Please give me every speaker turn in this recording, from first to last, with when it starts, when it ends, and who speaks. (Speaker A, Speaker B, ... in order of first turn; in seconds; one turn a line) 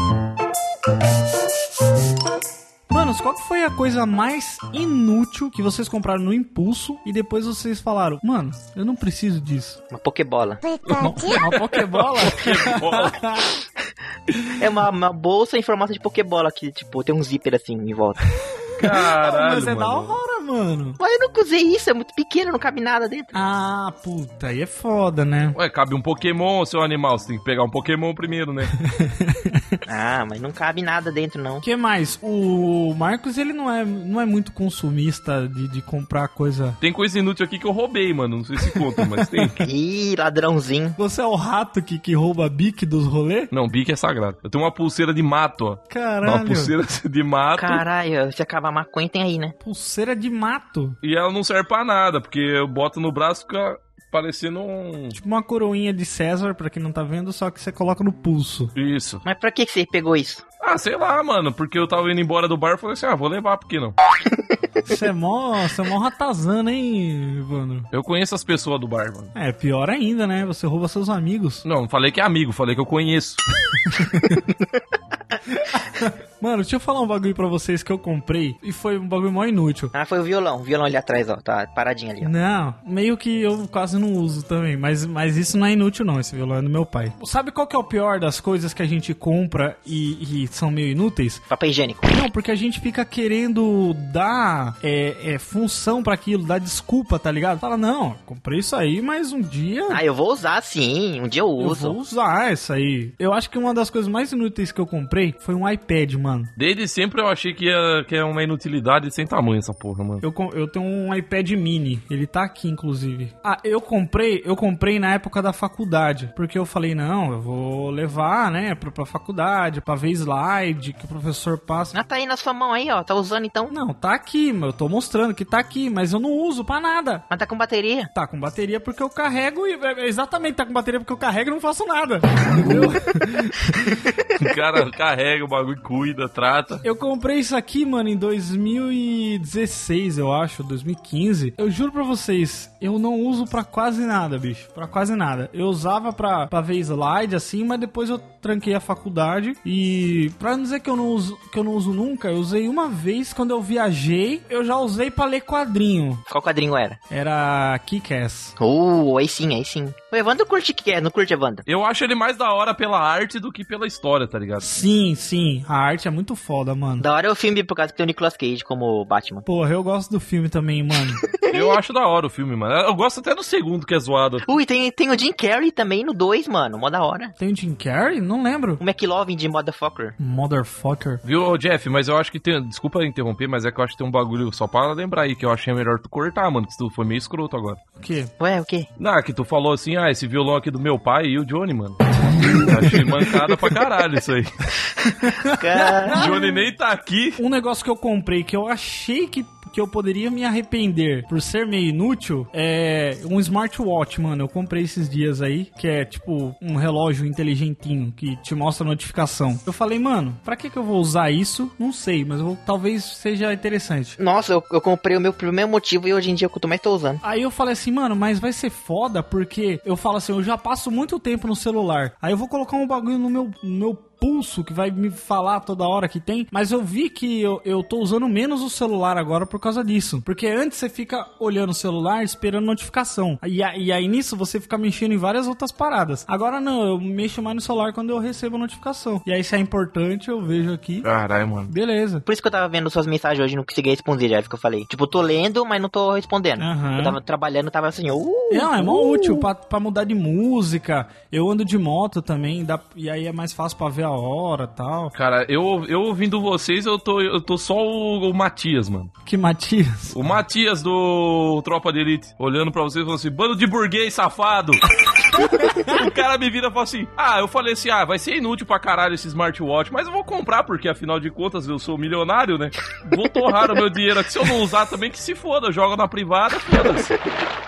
Speaker A: 2.9-9.8
Speaker B: 9.9-10.6
Speaker A: 10.9-13.5
Speaker C: 11.1-13.3
Speaker B: 14.6-18.2
Speaker C: 18.8-20.2
Speaker A: 18.8-21.0
Speaker B: 21.0-23.3
Speaker A: 23.3-25.6
Speaker C: 25.6-28.7
Speaker A: 28.8-29.6
Speaker B: 29.9-31.6
Speaker A: 31.6-36.8
Speaker C: 36.8-39.6
Speaker A: 39.0-39.5
Speaker B: 39.6-41.0
Speaker A: 41.0-43.5
Speaker C: 43.5-47.8
Speaker A: 45.9-46.7
Speaker B: 47.6-49.5
Speaker A: 49.6-51.0
Speaker C: 51.0-55.2
Speaker A: 55.1-58.7
Speaker C: 58.8-59.2
Speaker B: 59.2-60.4
Speaker C: 60.6-64.0
Speaker A: 64.9-67.9
Speaker C: 67.9-69.3
Speaker A: 69.3-71.6
Speaker C: 71.6-73.4
Speaker A: 73.9-74.4
Speaker A: 75.7-79.9
Speaker B: 79.9-82.3
Speaker A: 82.2-91.4
Speaker B: 91.5-92.1
Speaker A: 92.1-100.0
Speaker B: 99.9-102.0
Speaker A: 101.6-106.5
Speaker C: 106.6-110.2
Speaker A: 110.2-122.0
Speaker B: 121.9-123.7
Speaker A: 123.7-127.2
Speaker B: 127.3-128.1
Speaker A: 128.1-134.0
Speaker C: 134.4-136.8
Speaker A: 136.8-156.2
Speaker B: 156.3-157.0
Speaker A: 157.1-158.5
Speaker B: 158.6-161.6
Speaker C: 161.7-164.7
Speaker A: 164.6-167.1
Speaker B: 167.0-169.5
Speaker A: 169.5-171.2
Speaker B: 171.4-171.8
Speaker C: 171.5-174.5
Speaker B: 174.5-177.3
Speaker A: 177.4-178.8
Speaker B: 178.8-180.2
Speaker A: 180.2-181.2
Speaker C: 181.2-187.8
Speaker A: 188.0-188.3
Speaker B: 188.4-188.9
Speaker C: 189.0-194.5
Speaker A: 195.2-196.3
Speaker B: 195.5-196.5
Speaker C: 196.1-197.4
Speaker A: 197.4-214.2
Speaker B: 214.2-217.2
Speaker A: 217.2-241.1
Speaker C: 241.0-241.7
Speaker A: 241.7-242.2
Speaker B: 242.3-249.5
Speaker A: 246.6-247.2
Speaker A: 248.5-255.1
Speaker C: 255.2-259.1
Speaker A: 259.2-260.2
Speaker C: 260.1-264.8
Speaker A: 265.3-266.0
Speaker C: 265.7-277.2